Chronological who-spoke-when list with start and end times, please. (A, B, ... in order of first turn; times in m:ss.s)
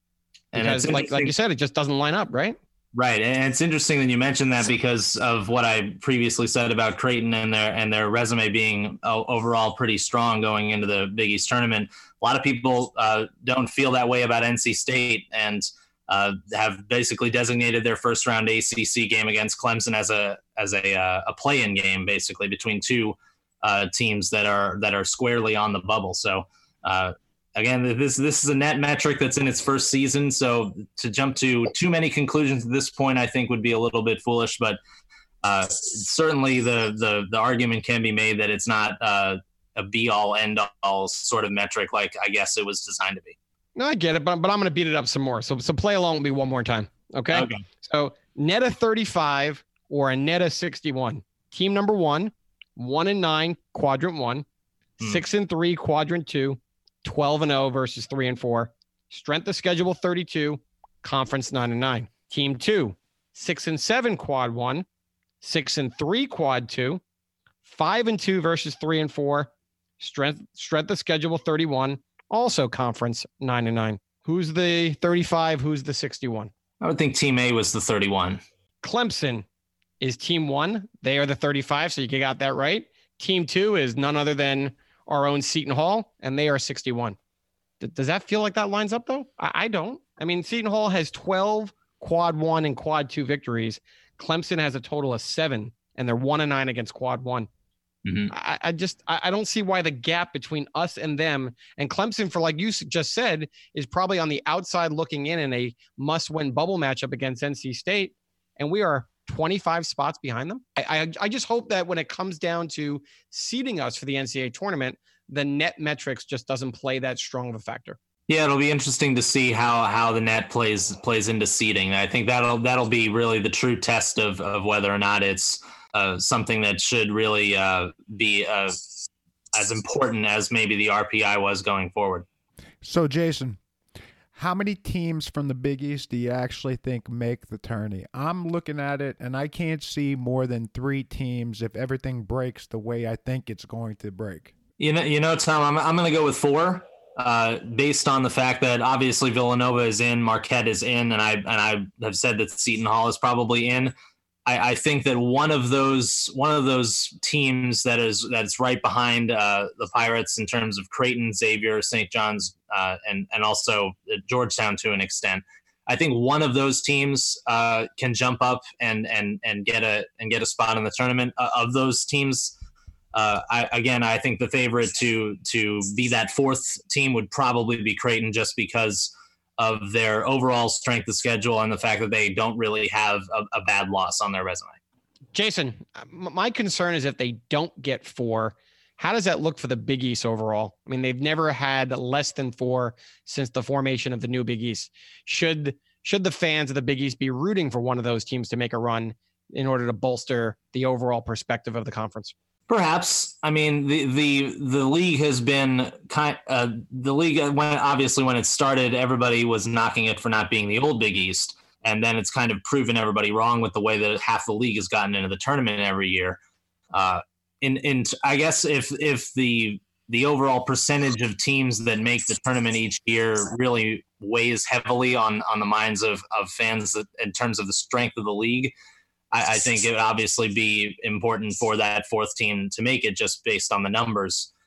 0:00.5-0:01.3 A
0:00.5-0:02.6 B
0:02.9-0:34.8 A
0:35.4-0:43.4 A
0:43.8-0:54.4 B
0:47.3-0:47.6 A
0:55.0-1:04.8 B
1:05.4-1:07.0 B
1:07.6-1:16.5 B
1:16.8-1:18.4 A
1:18.8-1:19.4 B
1:20.0-1:27.2 B
1:27.8-1:37.5 B
1:38.0-1:38.3 A
1:38.3-1:58.0 B
1:58.3-2:08.8 A
2:09.5-2:12.2 A
2:12.8-2:13.6 C
2:14.3-2:24.5 C
2:24.8-2:33.9 A
2:34.4-2:52.5 A
2:53.1-3:04.8 A
3:05.3-3:22.3 B
3:22.7-3:36.4 A
3:36.9-3:48.7 A
3:49.3-3:54.5 A